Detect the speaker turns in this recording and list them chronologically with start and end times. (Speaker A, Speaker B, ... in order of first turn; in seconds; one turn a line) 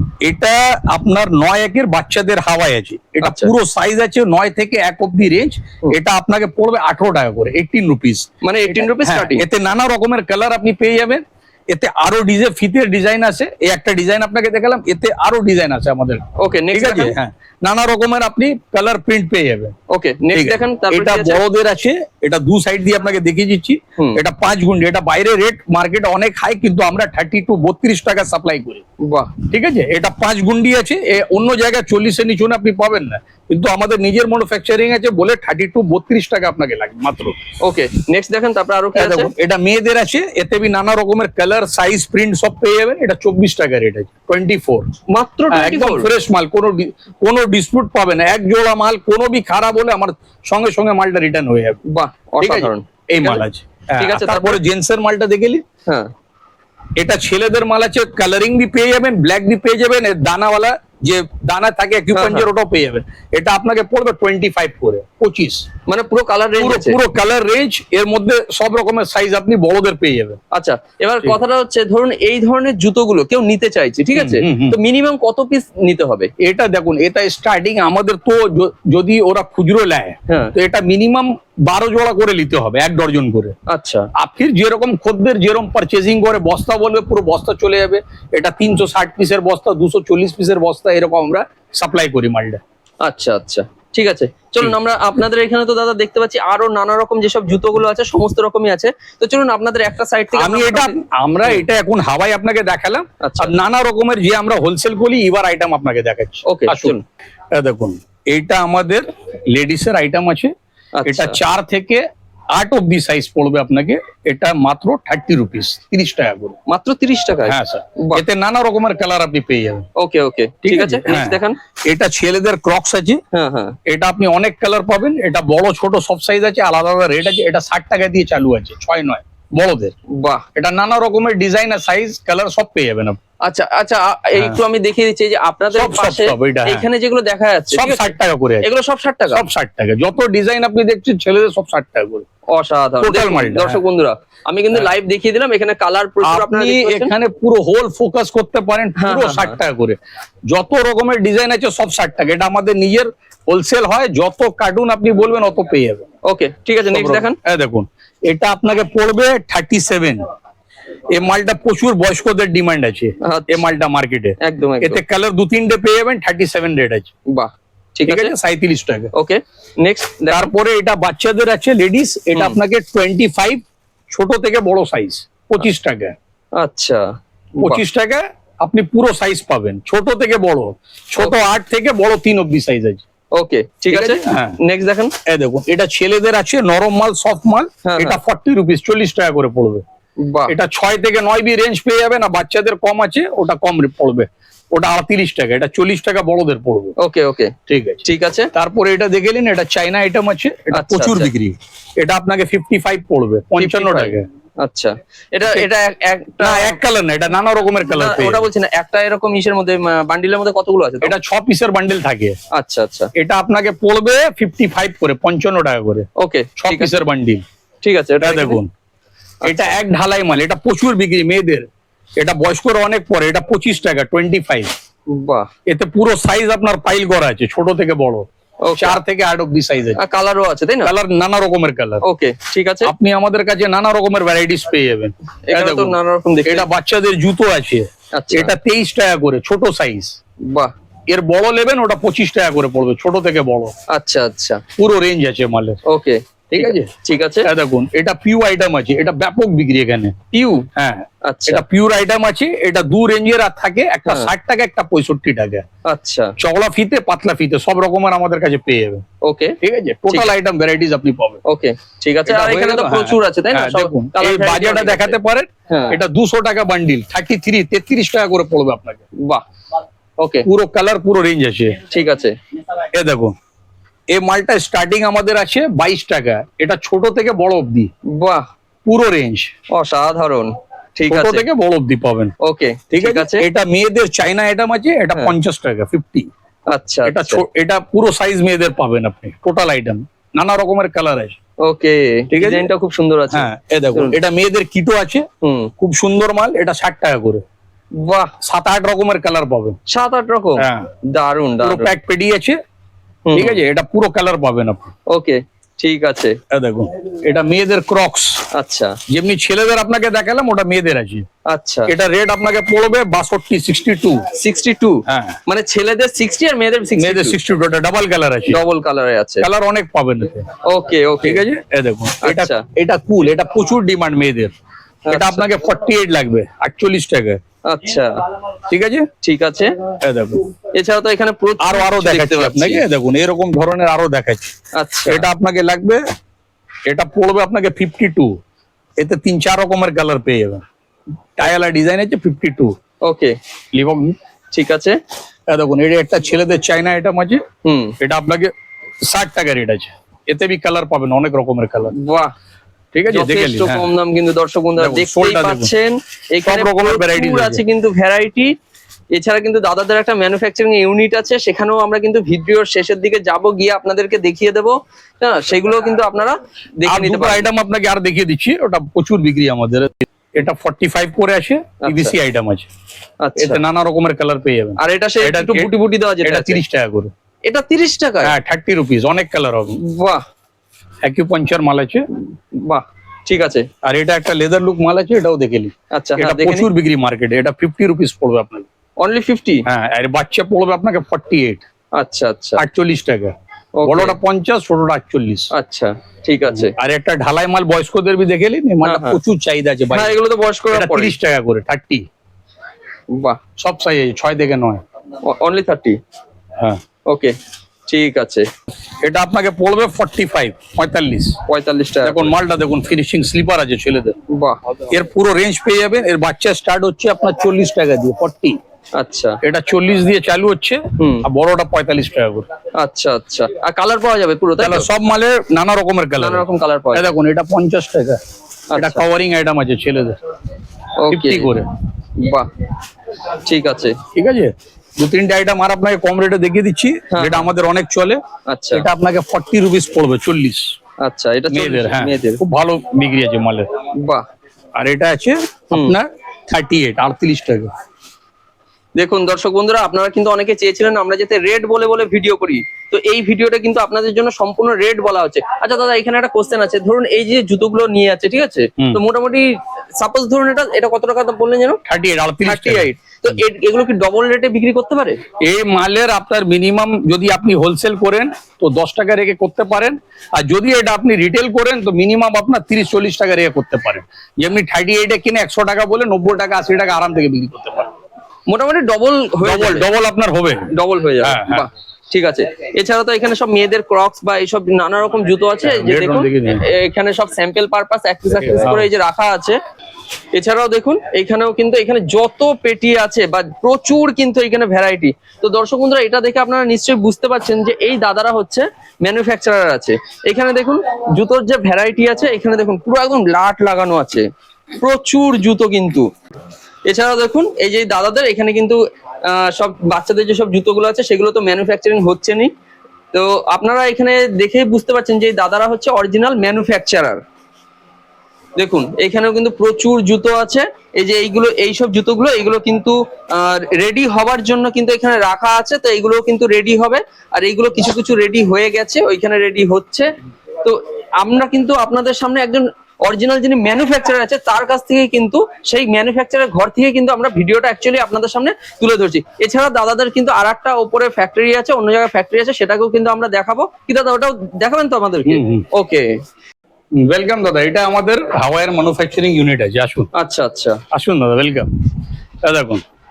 Speaker A: 0.2-19.7
Speaker B: 3.2-3.5
Speaker B: 8.4-9.4
Speaker B: 16.4-17.1
Speaker B: 19.9-21.4
Speaker A: 20.3-28.8
Speaker B: 29.0-29.3
Speaker A: 29.5-37.4
Speaker B: 37.6-39.3
Speaker A: 39.0-44.9
Speaker B: 45.1-46.1
Speaker A: 45.5-51.8
Speaker B: 51.9-53.4
Speaker A: 52.4-55.6
Speaker B: 54.0-54.6
Speaker A: 57.0-65.7
Speaker B: 62.1-62.5
Speaker B: 65.9-67.0
Speaker A: 66.6-70.4
Speaker B: 70.5-76.3
Speaker A: 74.2-74.8
Speaker A: 76.4-83.5
Speaker B: 80.3-80.5
Speaker B: 83.7-84.1
Speaker A: 84.2-92.6
Speaker B: 93.0-101.6
Speaker A: 100.3-107.0
Speaker B: 103.2-103.5
Speaker B: 106.5-107.0
Speaker A: 107.5-110.5
Speaker B: 111.0-111.3
Speaker A: 111.1-116.6
Speaker B: 116.7-118.2
Speaker A: 117.4-119.8
Speaker B: 120.0-121.6
Speaker A: 120.6-123.2
Speaker B: 123.3-123.8
Speaker A: 123.9-129.9
Speaker B: 130.1-130.4
Speaker A: 130.5-133.2
Speaker B: 133.4-139.4
Speaker A: 135.7-136.8
Speaker A: 137.7-138.7
Speaker A: 139.3-142.2
Speaker B: 142.5-147.1
Speaker A: 143.0-143.8
Speaker A: 146.2-150.0
Speaker B: 149.0-149.6
Speaker A: 150.5-156.0
Speaker B: 156.2-157.4
Speaker A: 156.9-160.2
Speaker A: 161.1-167.1
Speaker B: 163.2-163.6
Speaker B: 164.4-165.0
Speaker B: 167.3-168.3
Speaker A: 168.1-169.1
Speaker B: 169.1-170.5
Speaker A: 170.3-176.2
Speaker B: 176.6-177.0
Speaker B: 177.6-177.8
Speaker A: 177.6-183.0
Speaker B: 183.3-185.1
Speaker A: 183.9-184.6
Speaker A: 185.2-189.8
Speaker B: 187.8-188.2
Speaker B: 190.2-190.5
Speaker A: 190.5-196.9
Speaker B: 197.0-198.5
Speaker A: 197.7-204.3
Speaker B: 200.7-201.3
Speaker B: 203.6-206.8
Speaker A: 206.4-208.4
Speaker B: 207.8-211.1
Speaker A: 211.0-212.4
Speaker B: 212.5-213.1
Speaker A: 213.2-216.1
Speaker B: 216.2-217.0
Speaker A: 216.6-217.4
Speaker B: 217.8-218.6
Speaker A: 218.2-218.7
Speaker B: 219.4-219.8
Speaker A: 219.4-221.7
Speaker A: 222.2-224.7
Speaker B: 225.1-225.5
Speaker A: 225.7-228.3
Speaker B: 228.6-229.0
Speaker A: 228.8-230.0
Speaker B: 229.9-230.9
Speaker A: 230.8-232.0
Speaker B: 232.0-232.9
Speaker A: 232.8-240.2
Speaker B: 235.4-236.7
Speaker B: 238.1-238.5
Speaker B: 240.5-240.7
Speaker A: 241.1-243.7
Speaker B: 243.9-244.6
Speaker A: 244.8-245.8
Speaker B: 245.8-247.5
Speaker A: 246.5-246.9
Speaker A: 247.4-250.2
Speaker B: 250.3-250.7
Speaker A: 250.8-255.7
Speaker B: 251.2-251.6
Speaker B: 254.1-254.3
Speaker B: 255.8-256.3
Speaker A: 256.4-259.0
Speaker B: 259.2-259.6
Speaker A: 259.6-261.4
Speaker B: 261.4-265.1
Speaker A: 262.2-269.0
Speaker B: 265.7-266.0
Speaker B: 270.2-270.5
Speaker A: 270.4-271.8
Speaker B: 271.9-272.4
Speaker A: 272.9-273.4
Speaker A: 274.1-277.9
Speaker B: 278.1-278.4
Speaker A: 278.9-279.5
Speaker B: 279.7-281.5
Speaker A: 281.1-282.3
Speaker B: 282.4-283.4
Speaker A: 282.9-286.3
Speaker B: 286.7-287.4
Speaker A: 287.1-291.4
Speaker B: 291.6-294.2
Speaker A: 292.3-292.7
Speaker A: 293.3-295.2
Speaker B: 295.4-295.7
Speaker A: 295.8-297.4
Speaker B: 298.0-298.3
Speaker A: 298.4-299.8
Speaker B: 299.9-301.9
Speaker A: 300.6-300.9
Speaker A: 301.6-302.6
Speaker B: 303.3-303.6
Speaker A: 303.3-304.9
Speaker B: 305.1-306.4
Speaker A: 306.5-308.4
Speaker B: 308.5-309.0
Speaker A: 309.1-311.2
Speaker B: 311.5-311.9
Speaker A: 311.9-314.3
Speaker B: 314.3-317.4
Speaker A: 315.1-315.4
Speaker A: 317.0-318.6
Speaker B: 318.5-319.4
Speaker A: 319.4-320.5
Speaker B: 320.6-321.4
Speaker A: 321.2-324.5
Speaker B: 322.2-322.6
Speaker B: 325.1-325.5
Speaker A: 325.1-327.4
Speaker B: 327.6-328.2
Speaker A: 328.7-329.1
Speaker B: 329.2-329.8
Speaker A: 330.0-330.5
Speaker B: 330.7-332.8
Speaker A: 331.6-334.5
Speaker B: 334.7-335.2
Speaker A: 335.1-336.0
Speaker A: 336.9-338.4
Speaker A: 339.0-340.6
Speaker A: 341.4-342.7
Speaker B: 343.0-343.4
Speaker A: 343.7-344.1
Speaker B: 344.5-345.0
Speaker A: 345.5-347.4
Speaker B: 347.6-347.9
Speaker A: 348.0-348.5
Speaker A: 349.1-351.9
Speaker B: 351.9-352.3
Speaker A: 352.9-353.9
Speaker B: 353.1-358.5
Speaker A: 354.8-355.7
Speaker A: 356.4-357.6
Speaker B: 359.1-367.5
Speaker A: 366.9-372.7
Speaker B: 371.8-372.1
Speaker B: 373.2-373.6
Speaker A: 373.4-375.7
Speaker B: 374.8-376.6
Speaker A: 376.2-377.1
Speaker B: 377.4-378.3
Speaker A: 378.2-379.8
Speaker B: 379.7-380.2
Speaker A: 381.0-382.1
Speaker B: 382.5-383.7
Speaker A: 383.8-388.7
Speaker B: 385.9-386.7
Speaker B: 389.0-389.6
Speaker A: 389.6-391.6
Speaker B: 391.9-392.6
Speaker A: 392.6-393.3
Speaker B: 393.8-394.2
Speaker A: 393.9-395.5
Speaker B: 395.5-396.7
Speaker A: 396.5-400.1
Speaker B: 398.8-399.2
Speaker B: 399.9-401.1
Speaker A: 400.7-402.1
Speaker B: 403.1-403.4
Speaker A: 403.6-404.8
Speaker B: 405.2-406.0
Speaker B: 407.1-407.3
Speaker B: 407.9-408.5
Speaker A: 409.0-411.4
Speaker B: 411.5-412.3
Speaker A: 412.0-414.1
Speaker B: 414.3-414.6
Speaker A: 414.9-418.6
Speaker B: 418.9-419.4
Speaker A: 419.4-422.4
Speaker B: 421.0-421.2
Speaker B: 422.8-424.9
Speaker A: 424.6-428.2
Speaker B: 426.2-427.1
Speaker B: 428.7-429.0
Speaker A: 428.7-430.1
Speaker B: 431.0-431.5
Speaker A: 431.1-431.7
Speaker B: 432.2-432.5
Speaker B: 433.4-434.0
Speaker A: 434.1-438.2
Speaker B: 437.1-437.5
Speaker B: 438.5-438.9
Speaker A: 438.7-440.7
Speaker B: 441.0-442.4
Speaker A: 441.5-443.7
Speaker B: 443.9-444.2
Speaker A: 444.8-447.7
Speaker B: 445.7-446.0
Speaker B: 449.0-461.8
Speaker A: 461.9-463.4
Speaker B: 462.4-465.2
Speaker A: 465.4-477.9
Speaker B: 478.5-479.9
Speaker A: 479.4-480.7
Speaker B: 480.7-489.6
Speaker A: 481.2-481.6
Speaker A: 485.6-486.6
Speaker A: 488.4-488.9
Speaker B: 490.3-506.1
Speaker B: 506.9-512.5
Speaker B: 513.1-517.2
Speaker B: 518.6-530.1
Speaker B: 530.6-546.1
Speaker A: 545.3-545.6
Speaker A: 547.0-550.1
Speaker B: 550.1-550.8
Speaker A: 550.9-551.7
Speaker A: 552.4-552.8